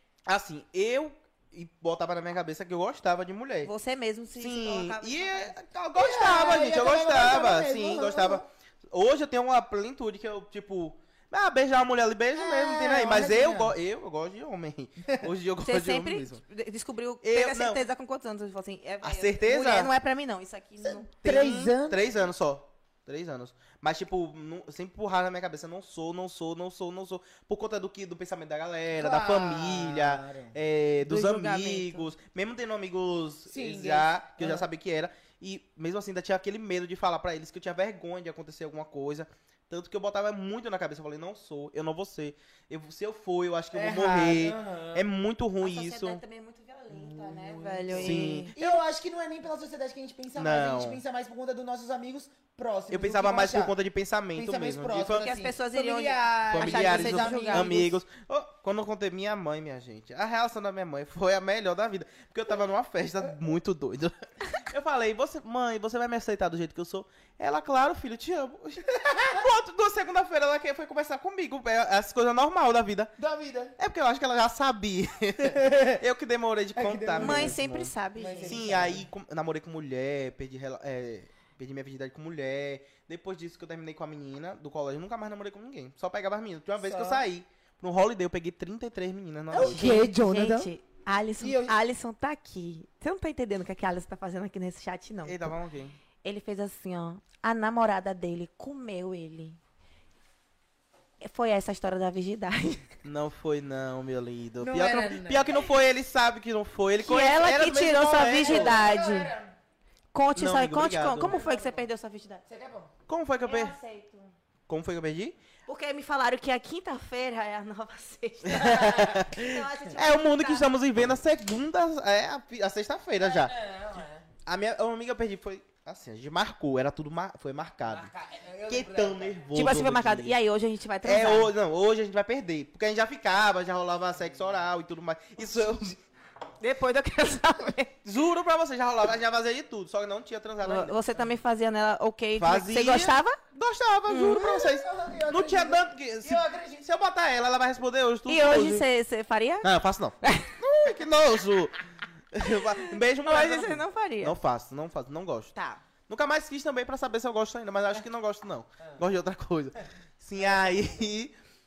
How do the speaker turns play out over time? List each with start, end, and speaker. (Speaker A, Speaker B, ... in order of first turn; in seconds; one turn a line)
Speaker A: 0.2-3.7
Speaker B: 3.6-5.5
Speaker A: 4.3-16.4
Speaker C: 5.9-8.4
Speaker C: 12.3-13.7
Speaker B: 15.6-21.1
Speaker A: 17.2-17.8
Speaker A: 19.0-19.9
Speaker C: 20.8-22.0
Speaker A: 21.2-46.2
Speaker C: 28.9-30.5
Speaker B: 31.0-32.1
Speaker C: 33.5-34.6
Speaker C: 43.7-45.0
Speaker B: 45.6-48.5
Speaker C: 46.9-53.8
Speaker A: 47.9-48.8
Speaker A: 50.4-51.0
Speaker A: 52.9-55.3
Speaker C: 54.3-57.9
Speaker B: 55.1-57.9
Speaker A: 56.5-73.1
Speaker C: 73.2-73.8
Speaker A: 73.8-90.0
Speaker C: 75.5-76.0
Speaker C: 76.7-77.6
Speaker B: 77.2-78.7
Speaker C: 78.1-79.1
Speaker C: 86.8-87.2
Speaker C: 89.5-90.7
Speaker B: 89.6-95.5
Speaker C: 91.4-91.7
Speaker A: 95.2-96.0
Speaker B: 96.2-99.6
Speaker B: 101.2-102.9
Speaker A: 103.0-108.8
Speaker C: 104.6-105.5
Speaker B: 107.0-109.3
Speaker C: 108.4-109.5
Speaker B: 110.1-112.4
Speaker A: 110.3-111.4
Speaker C: 111.2-111.8
Speaker C: 112.4-112.9
Speaker A: 113.1-113.8
Speaker B: 113.4-114.3
Speaker A: 114.7-115.3
Speaker B: 115.7-120.7
Speaker A: 118.4-123.5
Speaker C: 118.5-119.2
Speaker C: 123.2-124.3
Speaker A: 124.5-128.1
Speaker C: 127.9-129.4
Speaker A: 128.7-130.4
Speaker B: 129.5-131.5
Speaker A: 131.0-136.0
Speaker B: 136.6-137.9
Speaker A: 138.0-140.9
Speaker B: 140.6-143.4
Speaker A: 142.4-148.8
Speaker B: 144.1-144.8
Speaker C: 144.6-146.9
Speaker B: 148.3-149.7
Speaker A: 149.6-151.8
Speaker B: 150.2-150.6
Speaker A: 152.3-155.5
Speaker B: 152.7-154.3
Speaker B: 155.5-155.8
Speaker A: 156.1-161.3
Speaker C: 160.4-160.9